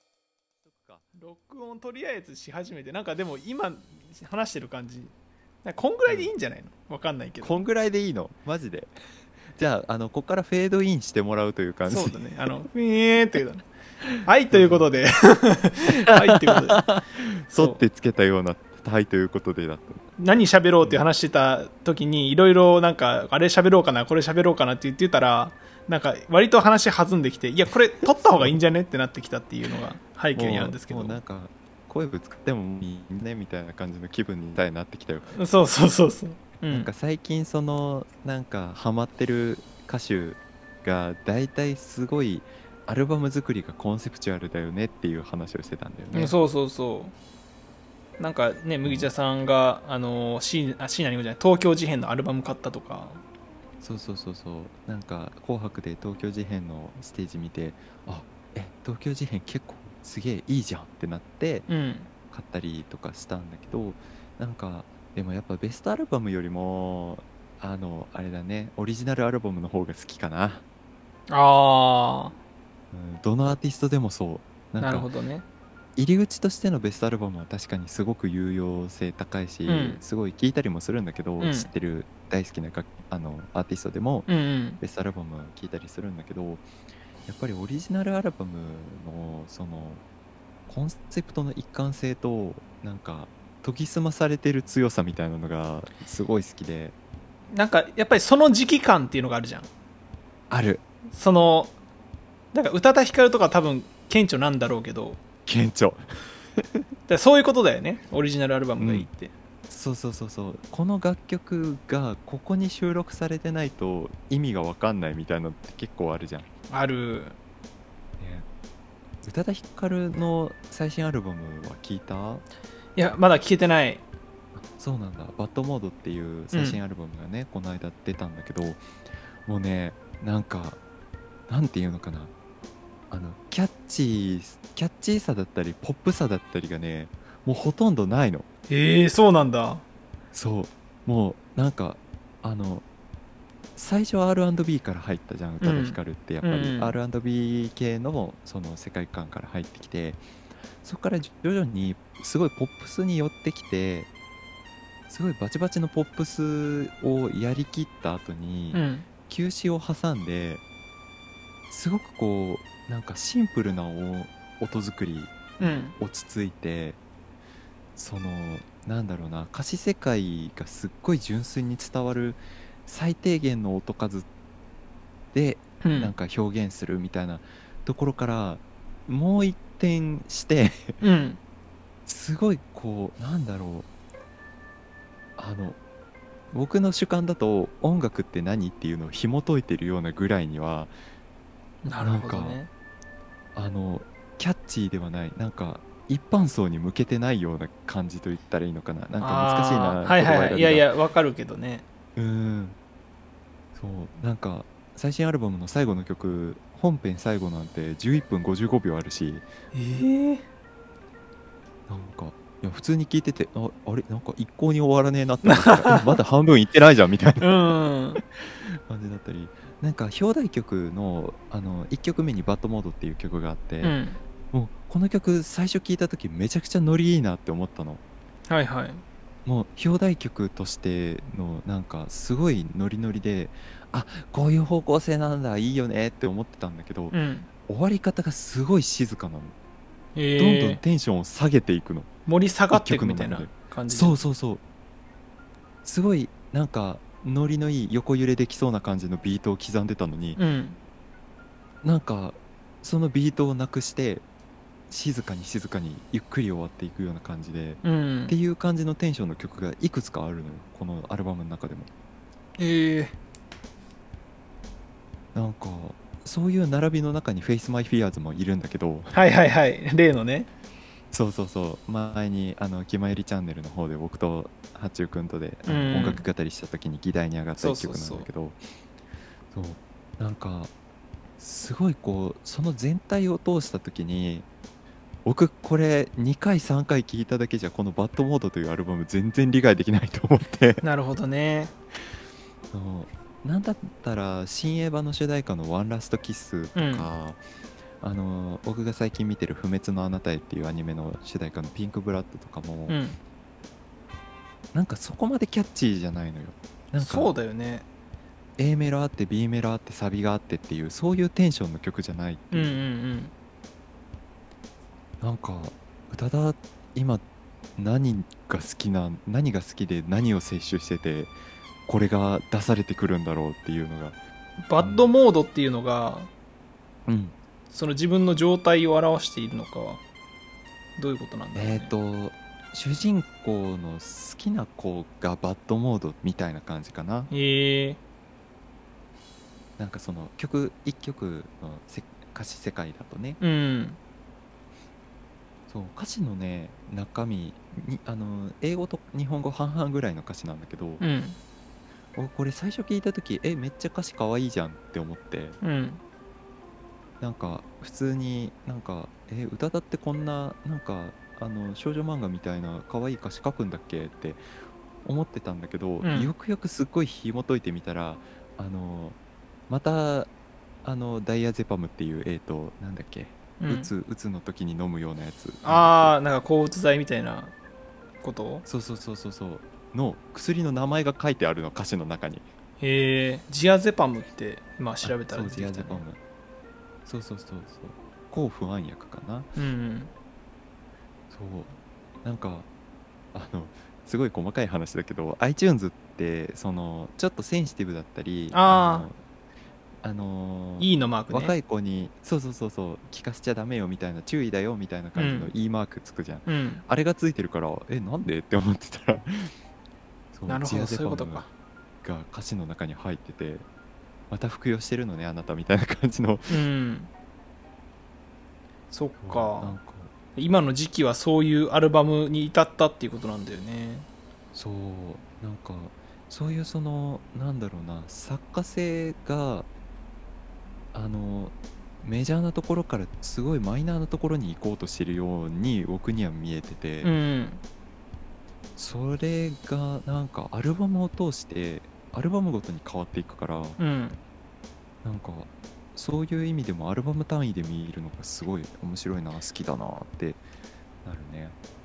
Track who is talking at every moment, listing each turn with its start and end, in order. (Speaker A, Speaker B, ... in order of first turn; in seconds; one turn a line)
Speaker A: 0.6-1.0
Speaker B: 1.1-7.6
Speaker A: 7.4-8.9
Speaker A: 9.6-12.2
Speaker B: 11.9-13.7
Speaker B: 14.2-16.8
Speaker A: 14.5-14.9
Speaker A: 16.1-20.0
Speaker B: 17.5-17.8
Speaker B: 20.2-31.2
Speaker A: 28.0-28.6
Speaker A: 30.4-35.3
Speaker B: 35.3-36.9
Speaker A: 36.6-46.4
Speaker B: 46.1-47.1
Speaker B: 48.2-53.2
Speaker A: 48.8-49.1
Speaker A: 53.8-61.7
Speaker B: 61.7-62.1
Speaker A: 62.3-70.6
Speaker B: 71.3-72.3
Speaker A: 72.9-75.1
Speaker B: 74.8-75.5
Speaker A: 76.0-84.3
Speaker B: 79.7-80.0
Speaker B: 81.4-81.7
Speaker B: 84.3-84.8
Speaker A: 84.8-86.7
Speaker A: 87.3-90.0
Speaker A: 90.7-97.0
Speaker B: 97.5-99.7
Speaker A: 100.5-100.8
Speaker B: 101.1-101.8
Speaker B: 102.5-105.2
Speaker A: 105.5-106.0
Speaker B: 107.1-109.3
Speaker A: 108.8-109.1
Speaker A: 109.7-116.5
Speaker B: 116.7-117.4
Speaker A: 118.2-118.5
Speaker A: 119.2-122.5
Speaker B: 123.0-124.0
Speaker A: 124.5-128.8
Speaker B: 126.5-126.8
Speaker A: 129.4-130.8
Speaker A: 131.5-132.3
Speaker A: 133.1-138.4
Speaker B: 138.7-139.8
Speaker A: 140.3-142.8
Speaker A: 143.8-150.2
Speaker B: 145.6-147.0
Speaker A: 150.8-154.1
Speaker A: 155.1-160.6
Speaker B: 158.7-159.1
Speaker A: 161.7-167.0
Speaker B: 165.6-165.9
Speaker A: 167.9-174.3
Speaker A: 175.3-181.0
Speaker B: 175.8-176.1
Speaker B: 181.0-181.4
Speaker A: 182.1-183.9
Speaker A: 185.4-185.8
Speaker A: 186.5-190.9
Speaker B: 191.8-192.7
Speaker A: 192.0-192.6
Speaker A: 193.5-200.9
Speaker B: 199.2-201.8
Speaker A: 202.2-202.8
Speaker A: 203.7-209.5
Speaker B: 209.7-210.4
Speaker A: 211.9-217.6
Speaker B: 215.4-216.0
Speaker B: 217.4-218.2
Speaker A: 218.2-223.9
Speaker B: 223.8-224.2
Speaker A: 224.5-228.0
Speaker B: 228.5-229.0
Speaker A: 229.4-239.5
Speaker B: 237.1-237.5
Speaker B: 240.1-240.8
Speaker A: 240.4-242.1
Speaker B: 242.2-244.2
Speaker A: 242.7-244.6
Speaker A: 245.8-250.4
Speaker B: 250.3-250.8
Speaker A: 251.8-254.2
Speaker A: 254.9-261.9
Speaker B: 257.8-258.4
Speaker B: 262.6-263.2
Speaker A: 265.4-269.2
Speaker B: 269.1-270.5
Speaker A: 271.1-278.6
Speaker B: 275.7-276.2
Speaker B: 277.6-278.3
Speaker A: 279.5-280.7
Speaker A: 281.4-284.5
Speaker A: 285.2-290.8
Speaker B: 290.8-291.7
Speaker A: 292.7-297.4
Speaker B: 296.8-297.1
Speaker A: 298.0-303.0
Speaker B: 302.9-303.2
Speaker A: 304.7-307.3
Speaker B: 307.0-307.9
Speaker A: 308.6-312.8
Speaker B: 312.5-313.3
Speaker A: 315.2-317.2
Speaker A: 317.8-321.4
Speaker A: 321.9-324.2
Speaker B: 324.6-326.3
Speaker A: 324.8-325.1
Speaker A: 327.1-327.4
Speaker B: 327.7-330.0
Speaker B: 331.0-331.9
Speaker A: 331.6-337.3
Speaker B: 337.3-338.0
Speaker A: 339.8-343.4
Speaker B: 343.4-344.0
Speaker A: 345.7-351.0
Speaker B: 351.0-351.4
Speaker A: 352.2-355.6
Speaker B: 355.6-356.0
Speaker A: 357.2-364.4
Speaker A: 365.0-369.2
Speaker B: 366.0-366.3
Speaker A: 369.7-370.3
Speaker A: 370.8-376.1
Speaker B: 373.6-373.9
Speaker B: 375.6-377.5
Speaker B: 378.2-378.6
Speaker A: 378.6-382.5
Speaker B: 382.8-386.1
Speaker A: 385.0-386.2
Speaker A: 387.1-389.6
Speaker B: 389.6-390.1
Speaker A: 391.3-392.7
Speaker A: 393.3-399.2
Speaker B: 398.5-399.1
Speaker A: 400.0-409.5
Speaker B: 400.8-401.6
Speaker B: 405.2-405.5
Speaker B: 406.5-406.8
Speaker A: 410.3-411.5
Speaker B: 410.5-411.5
Speaker A: 412.0-413.6
Speaker A: 414.3-416.7
Speaker B: 416.5-417.1
Speaker B: 418.9-419.8
Speaker A: 419.2-420.1
Speaker B: 420.4-424.1
Speaker A: 424.5-429.7
Speaker A: 430.9-437.1
Speaker B: 437.0-437.6
Speaker A: 438.8-443.8
Speaker B: 443.8-444.2
Speaker A: 445.0-450.4
Speaker A: 451.1-451.6